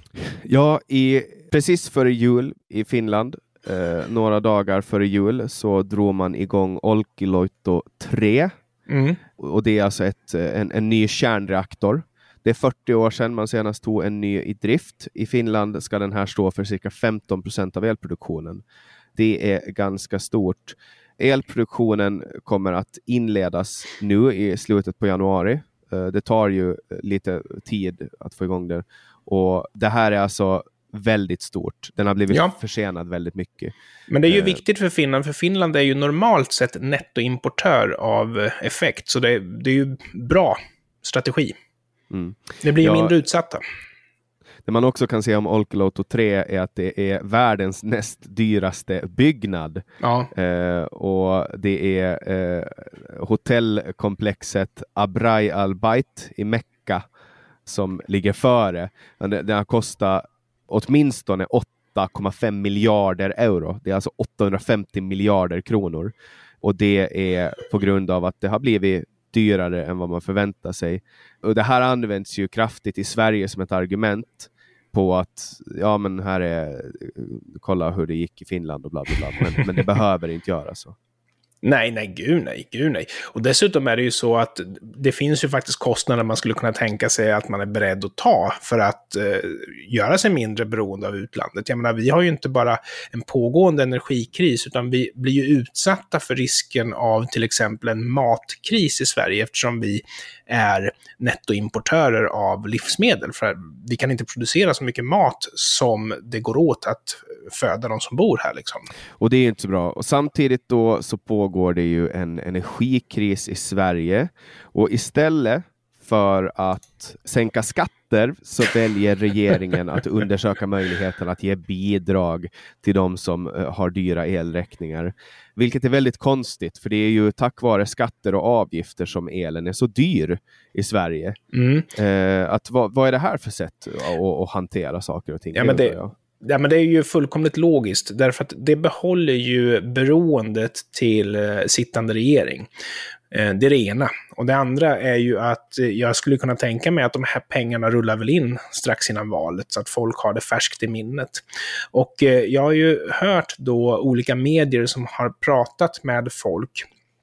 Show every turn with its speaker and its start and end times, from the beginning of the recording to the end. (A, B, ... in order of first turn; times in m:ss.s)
0:00.3-0:08.5 A
0:08.9-0:09.2 B
0:09.4-0:18.6 A
0:19.2-0:33.7 A
0:32.3-0:32.5 B
0:34.1-0:41.5 B
0:34.3-0:34.6 A
0:42.1-0:43.1 A
0:42.6-0:43.6 B
0:44.6-0:57.0 A
0:50.0-0:50.3 B
0:57.6-1:21.0 A
1:21.6-1:48.9 B
1:49.2-2:11.4 A
2:11.5-2:11.9 B
2:11.9-2:16.1 A
2:15.5-2:22.7 B
2:23.3-2:31.4 B
2:31.9-2:36.8 B